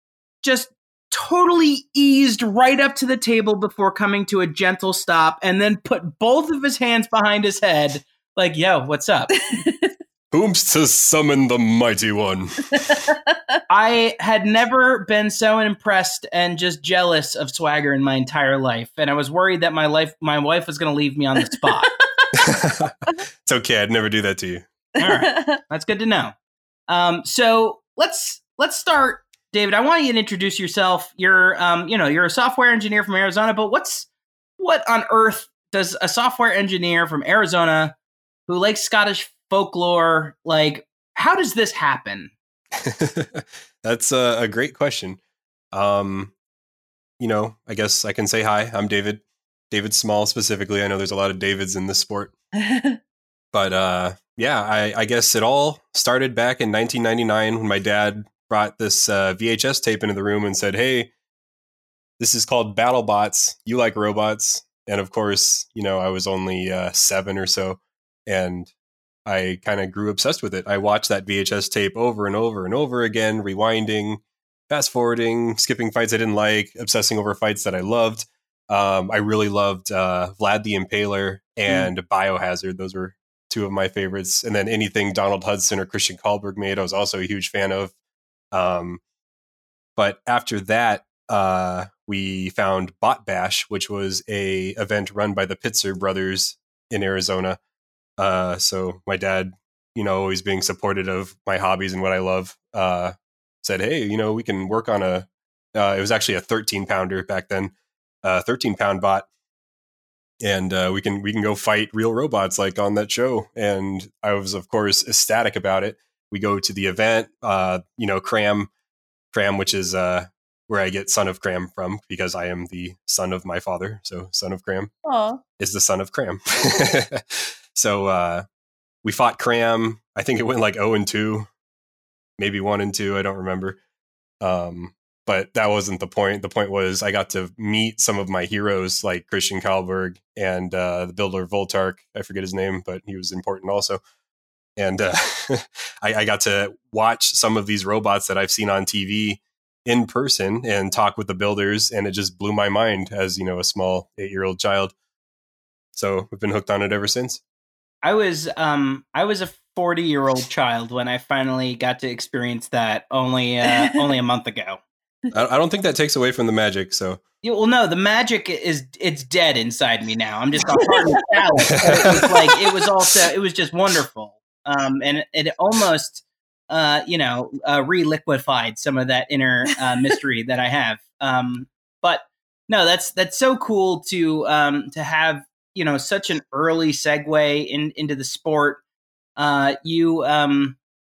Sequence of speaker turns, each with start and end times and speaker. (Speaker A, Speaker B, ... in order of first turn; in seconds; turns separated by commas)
Speaker A: 0.4-9.3, Speaker B: 9.5-9.9, Speaker C: 10.3-12.9, Speaker B: 12.9-13.3, Speaker A: 13.7-21.9, Speaker C: 22.4-24.7, Speaker A: 25.0-26.3, Speaker B: 25.0-25.6, Speaker A: 26.9-34.1, Speaker A: 34.6-38.0, Speaker A: 38.5-42.3, Speaker C: 42.8-45.2, Speaker C: 45.7-46.3, Speaker C: 47.2-52.3, Speaker B: 52.6-53.0, Speaker C: 53.5-61.1, Speaker C: 62.2-68.7, Speaker C: 69.2-87.9, Speaker C: 88.5-89.0, Speaker C: 90.0-97.6, Speaker C: 98.2-107.7, Speaker C: 108.2-109.3, Speaker C: 110.4-118.7, Speaker C: 119.3-124.9, Speaker B: 125.0-125.4, Speaker C: 125.6-128.4, Speaker C: 129.0-131.5, Speaker C: 132.4-133.8, Speaker C: 134.4-144.0, Speaker C: 144.8-154.9, Speaker C: 155.9-157.4, Speaker A: 158.0-164.8, Speaker C: 165.3-167.2, Speaker A: 167.4-188.8, Speaker B: 171.7-172.0, Speaker A: 189.4-190.8